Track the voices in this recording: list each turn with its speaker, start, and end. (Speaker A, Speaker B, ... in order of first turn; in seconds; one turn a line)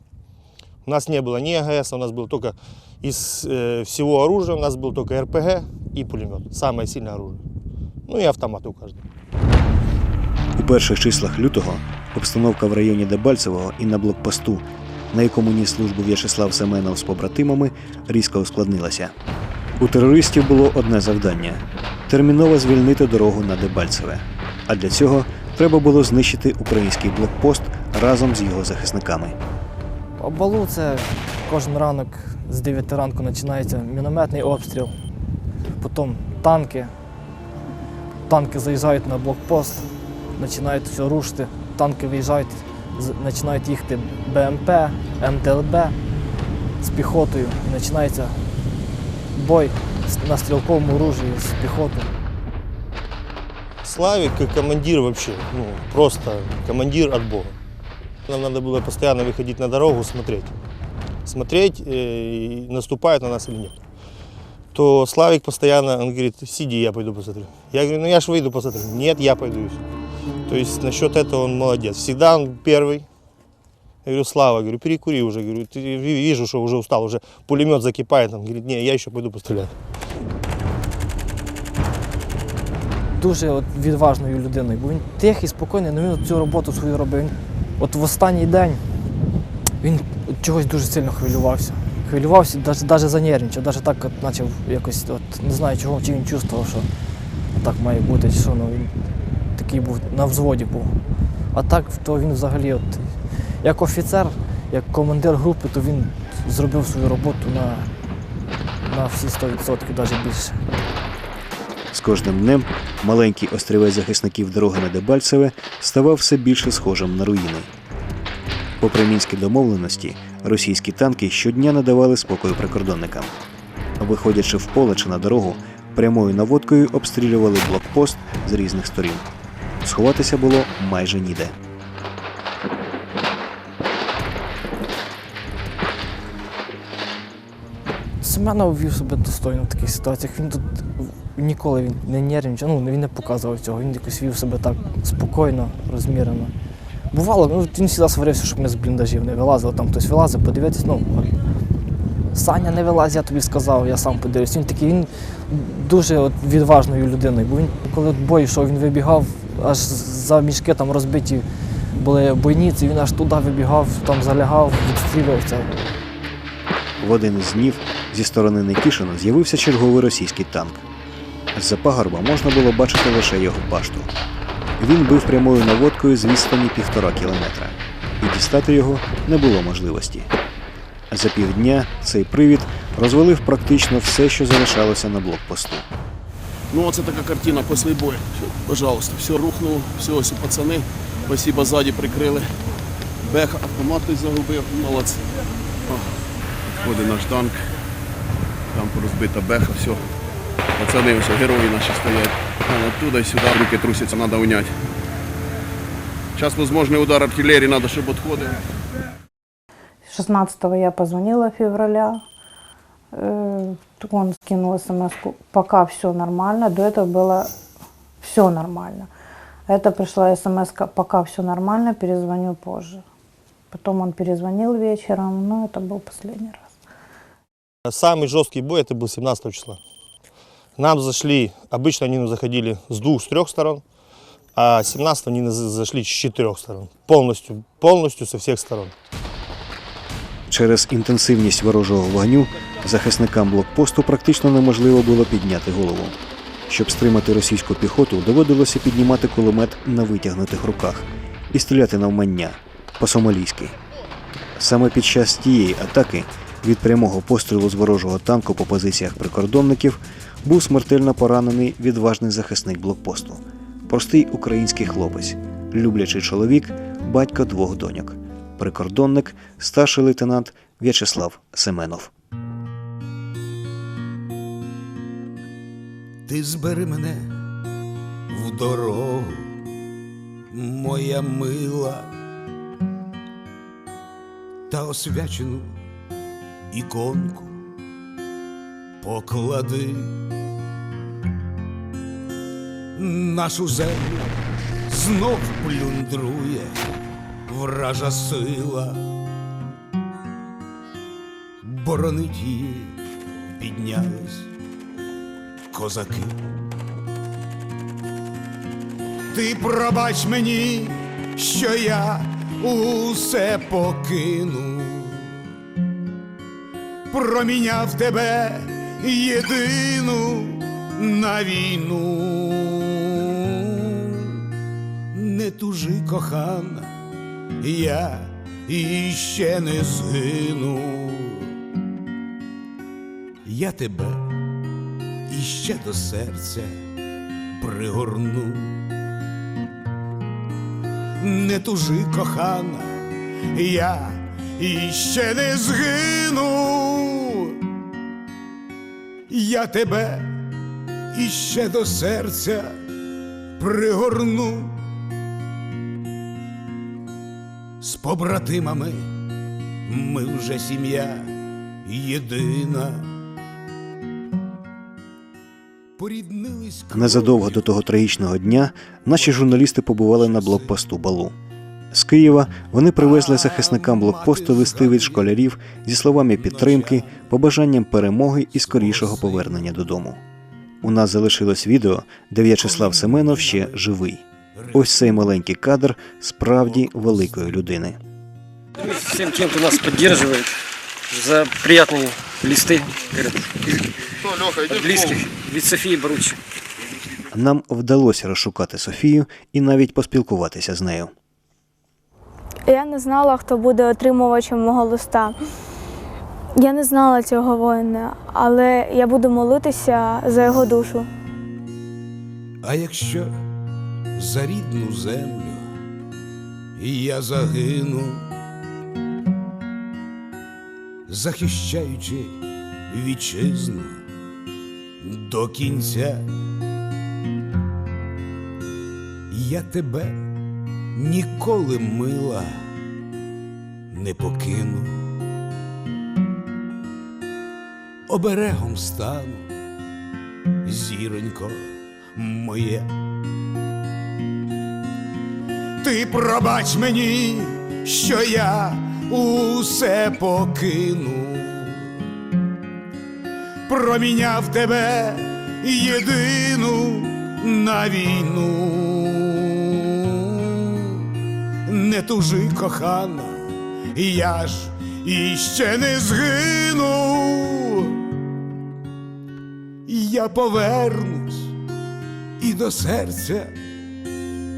Speaker A: 0.8-7.4
Speaker A: 8.1-9.0
Speaker B: 10.6-19.1
Speaker B: 19.8-29.4
Speaker C: 30.2-34.9
Speaker C: 35.8-36.9
Speaker C: 38.3-46.0
Speaker C: 46.8-48.4
Speaker C: 49.3-52.1
Speaker A: 53.8-57.6
Speaker A: 58.3-60.5
Speaker A: 61.2-63.8
Speaker A: 64.7-69.8
Speaker A: 70.5-73.0
Speaker A: 74.0-79.7
Speaker C: 83.1-88.8
Speaker C: 89.8-96.9
Speaker C: 97.5-98.9
Speaker C: 99.5-101.0
Speaker C: 101.5-107.9
Speaker C: 108.8-110.6
Speaker B: 111.9-117.7
Speaker B: 118.8-123.3
Speaker B: 124.0-129.2
Speaker B: 129.8-131.5
Speaker C: 138.2-146.5
Speaker C: 147.1-151.3
Speaker C: 152.3-165.8
Speaker B: 167.0-170.8
Speaker B: 171.5-174.1
Speaker B: 174.8-180.3
Speaker B: 181.1-185.8
Speaker D: 186.7-192.5
Speaker D: 193.2-195.2
Speaker D: 195.9-196.2
Speaker D: 196.8-197.6
Speaker D: 198.7-200.0
Speaker D: 200.8-204.7
Speaker D: 206.3-208.6
Speaker E: 210.1-212.2
Speaker E: 213.1-217.5
Speaker E: 218.2-219.1
Speaker E: 219.7-223.0
Speaker E: 223.7-226.6
Speaker A: 227.8-229.8
Speaker A: 230.8-233.8
Speaker A: 234.5-238.9
Speaker B: 240.5-246.2
Speaker B: 246.7-253.8
Speaker B: 254.6-272.1
Speaker F: 276.3-277.3
Speaker F: 278.3-279.5
Speaker F: 280.5-282.1
Speaker F: 284.7-285.7
Speaker F: 286.7-287.6
Speaker F: 289.0-290.1
Speaker F: 292.9-294.4
Speaker F: 294.9-296.8
Speaker F: 297.5-299.0
Speaker F: 301.6-303.0
Speaker F: 303.6-304.5
Speaker F: 305.7-306.4
Speaker F: 309.3-315.3
Speaker F: 317.1-324.4
Speaker F: 325.1-326.9
Speaker F: 327.6-331.5
Speaker F: 333.4-334.2
Speaker F: 335.3-336.7
Speaker F: 337.6-338.8
Speaker F: 341.2-343.0
Speaker F: 343.5-347.6
Speaker F: 349.3-350.3
Speaker F: 351.1-352.8
Speaker F: 353.6-354.8
Speaker F: 357.8-359.0
Speaker F: 359.9-361.3
Speaker F: 361.8-363.1
Speaker F: 366.0-367.7
Speaker B: 366.9-371.3
Speaker F: 369.2-370.8
Speaker B: 371.9-380.2
Speaker F: 373.0-375.4
Speaker F: 376.3-377.2
Speaker F: 378.5-379.6
Speaker B: 380.8-388.0
Speaker F: 382.6-383.8
Speaker F: 384.6-385.2
Speaker G: 388.8-390.5
Speaker G: 391.1-396.4
Speaker B: 397.3-401.1
Speaker H: 402.6-405.4
Speaker H: 406.6-411.1
Speaker F: 412.6-413.3
Speaker F: 414.1-415.6
Speaker F: 416.8-418.3
Speaker F: 421.1-422.4
Speaker F: 422.9-424.0
Speaker F: 425.0-426.2
Speaker F: 429.3-430.2
Speaker F: 430.9-432.5
Speaker F: 433.9-435.1
Speaker F: 438.1-439.5
Speaker F: 440.6-441.6
Speaker F: 442.1-442.9
Speaker F: 445.8-451.9
Speaker F: 453.7-461.1
Speaker F: 461.6-463.4
Speaker F: 463.9-467.9
Speaker F: 469.9-471.6
Speaker F: 472.4-473.5